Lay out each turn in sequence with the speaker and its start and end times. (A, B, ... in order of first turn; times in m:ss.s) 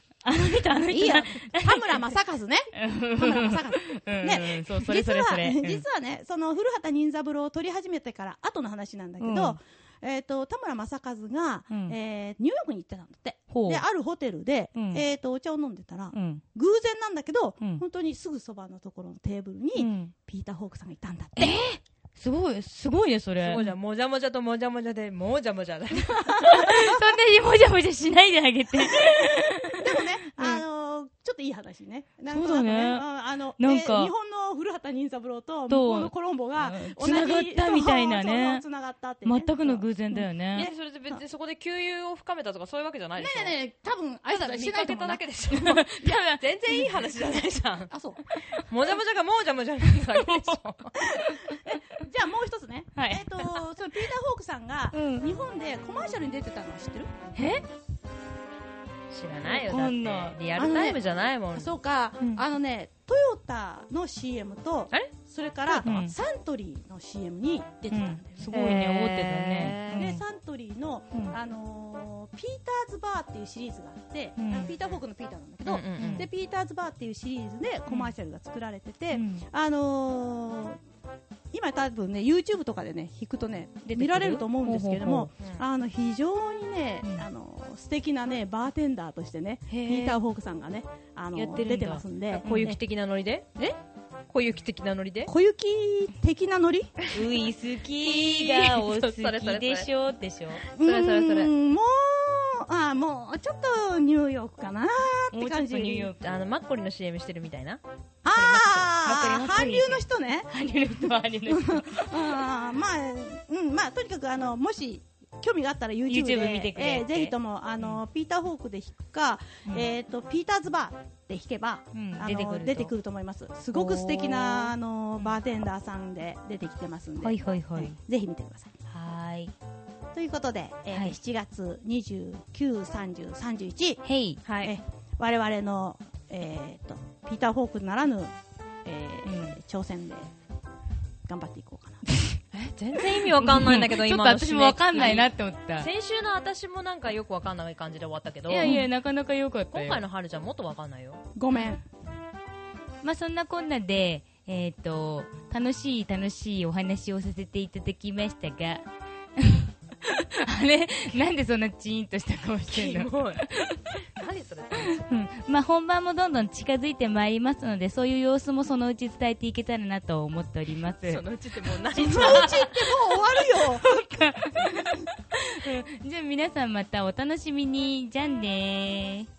0:00.2-0:02.1 A
0:00.9-0:21.6 B
0:02.7-0:05.8 A
0:09.2-0:09.6 A
0:11.7-0:12.0 A
0:13.5-0:13.8 A
0:14.8-0:15.0 A
0:16.1-0:16.4 A
0:19.8-0:20.1 A
0:21.4-0:23.7 A
0:23.4-0:26.6 C
0:26.4-0:30.6 A
0:29.8-0:40.8 B
0:32.3-0:33.0 A
0:33.6-0:34.1 A
0:35.7-0:38.6 A
0:39.2-0:40.7 A
0:40.6-0:43.6 C
0:43.2-0:45.8 B
0:44.3-0:47.9 C
0:45.5-0:46.9 A
0:47.9-0:48.2 B
0:48.6-0:51.0 C
0:50.0-0:50.6 A
0:51.0-0:57.1 B
0:51.1-0:52.0 A
0:53.0-0:53.6 A
0:54.9-0:55.3 A
0:57.4-0:57.6 A
0:59.1-1:01.7 C
0:59.4-1:00.4 A
1:00.6-1:01.0 B
1:01.5-1:08.5 B
1:05.7-1:06.2 A
1:07.9-1:10.2 A
1:08.5-1:10.1 C
1:09.9-1:20.8 B
1:14.4-1:14.7 A
1:15.6-1:16.3 C
1:16.0-1:16.3 A
1:17.9-1:18.2 A
1:19.1-1:19.5 A
1:21.5-1:32.8 B
1:23.8-1:25.3 A
1:29.7-1:30.2 A
1:31.3-1:32.8 A
1:32.4-1:33.5 C
1:34.3-1:35.3 C
1:35.3-1:37.0 B
1:37.1-1:40.7 A
1:38.0-1:39.9 C
1:40.6-1:41.5 C
1:40.7-1:46.1 B
1:45.3-1:46.3 A
1:46.2-1:48.9 C
1:48.2-2:08.7 B
1:49.0-1:52.1 A
1:56.1-1:58.0 A
2:01.9-2:02.9 A
2:03.7-2:05.4 A
2:07.2-2:08.0 A
2:08.9-2:09.5 A
2:10.1-2:14.0 B
2:14.0-2:14.4 A
2:14.4-2:14.8 C
2:14.6-2:18.3 B
2:18.8-2:20.3 B
2:19.2-2:19.6 A
2:21.3-2:22.0 B
2:22.5-2:28.8 C
2:23.2-2:25.9 A
2:28.5-2:30.0 A
2:29.7-2:31.2 C
2:31.4-2:31.8 B
2:33.0-2:38.8 A
2:39.4-2:43.8 A
2:42.7-2:45.0 C
2:44.9-2:51.2 A
2:51.1-2:52.6 C
2:52.0-2:53.8 B
2:52.0-2:59.3 A